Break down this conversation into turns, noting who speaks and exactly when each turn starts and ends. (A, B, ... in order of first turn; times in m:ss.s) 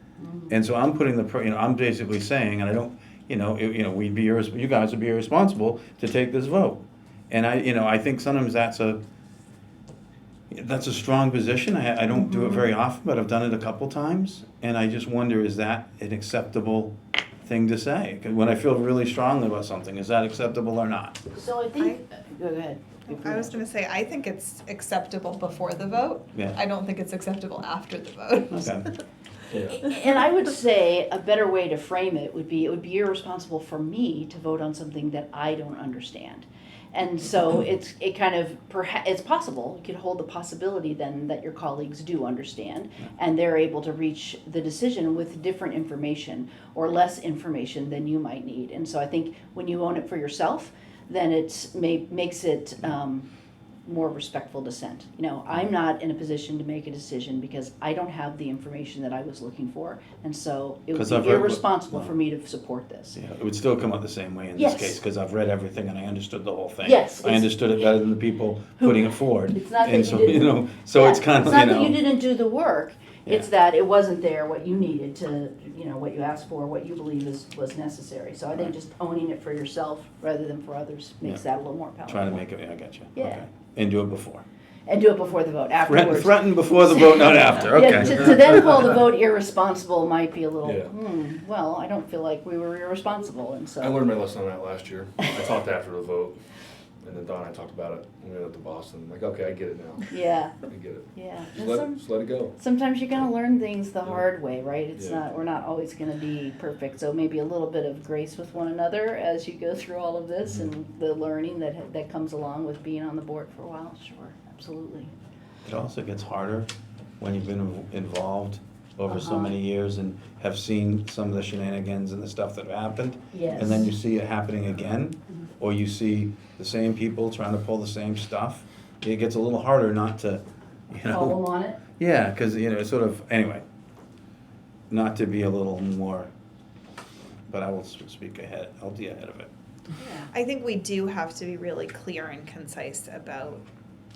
0:00.2-0:00.5 A
0:00.5-0:09.0 B
0:10.5-0:21.2 B
0:12.2-0:12.6 A
0:21.3-0:23.7 A
0:23.1-0:29.0 C
0:28.5-0:28.9 B
0:29.5-0:29.8 D
0:29.7-0:53.3 A
0:53.9-1:03.2 A
1:00.9-1:02.1 B
1:03.2-1:12.0 B
1:04.6-1:05.0 A
1:06.8-1:07.8 A
1:08.8-1:22.4 A
1:22.0-1:24.4 B
1:23.2-1:23.4 A
1:24.9-1:34.0 A
1:25.8-1:28.7 B
1:30.6-1:30.9 D
1:33.8-1:36.4 D
1:37.0-1:42.6 D
1:40.1-1:40.6 A
1:41.1-1:42.0 A
1:42.6-1:55.1 A
1:45.0-1:45.2 D
1:55.6-2:11.4 B
1:59.1-1:59.5 A
2:03.3-2:03.9 A
2:11.0-2:11.8 A
2:12.0-2:13.6 B
2:14.9-2:16.3 B
2:17.5-2:19.5 B
2:20.0-2:20.3 A
2:20.3-2:23.6 C